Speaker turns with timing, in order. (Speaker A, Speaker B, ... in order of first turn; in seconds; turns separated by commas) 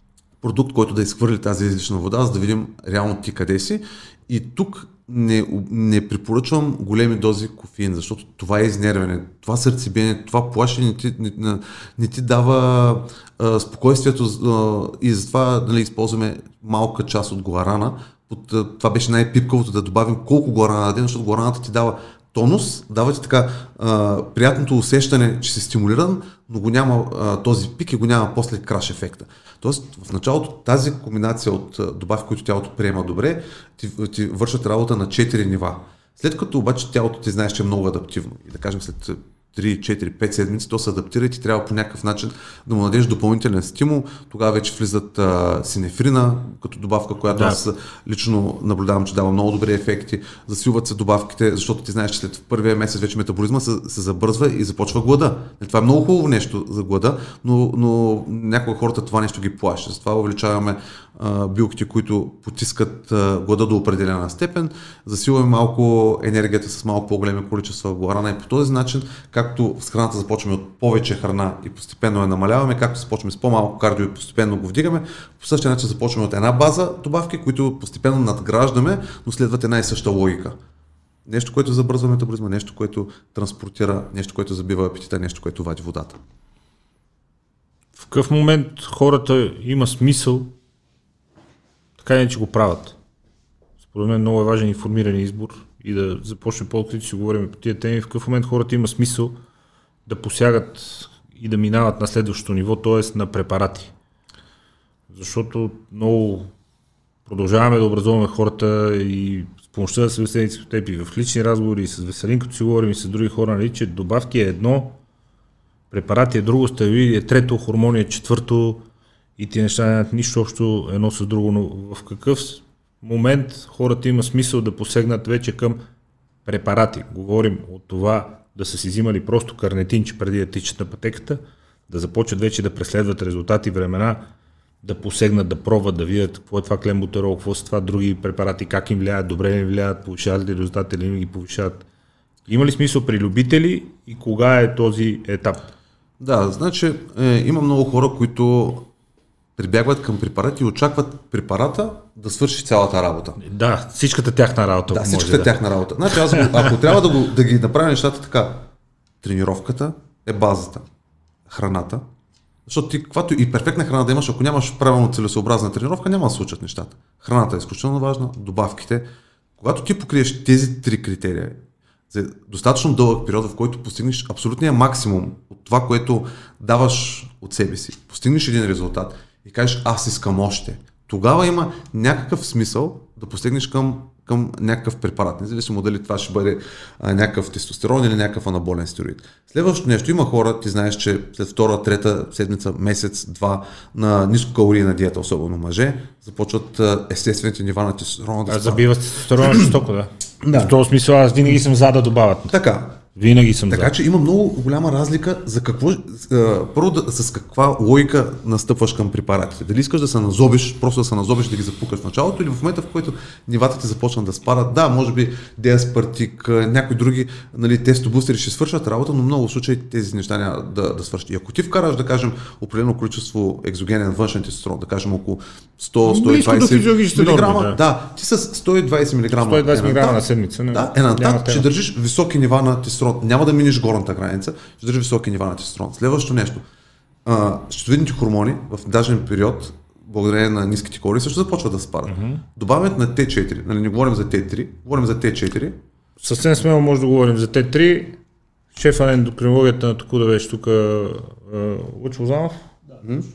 Speaker A: 0.4-80.5, Speaker B: 47.3-47.6, Speaker A: 81.3-86.2, Speaker B: 88.0-90.5, Speaker B: 92.0-92.9, Speaker B: 93.8-99.4, Speaker B: 100.0-103.9, Speaker B: 105.1-106.5, Speaker B: 107.3-115.0, Speaker B: 115.9-118.8, Speaker B: 119.4-125.8, Speaker B: 126.5-134.2, Speaker B: 134.8-141.8, Speaker B: 142.5-145.7, Speaker A: 146.2-148.9, Speaker A: 149.6-153.4, Speaker B: 153.4-155.5, Speaker A: 154.9-158.6, Speaker B: 156.1-156.7, Speaker A: 159.2-160.8, Speaker A: 161.5-162.0, Speaker A: 162.7-169.1, Speaker A: 169.6-199.7, Speaker B: 198.5-202.6, Speaker A: 200.4-200.8, Speaker A: 202.5-203.0, Speaker B: 203.1-203.9, Speaker A: 203.7-230.2, Speaker B: 226.1-227.8, Speaker B: 229.3-231.7, Speaker A: 230.7-236.6, Speaker A: 237.2-245.8, Speaker B: 242.1-242.4, Speaker B: 246.2-248.2, Speaker B: 248.7-252.6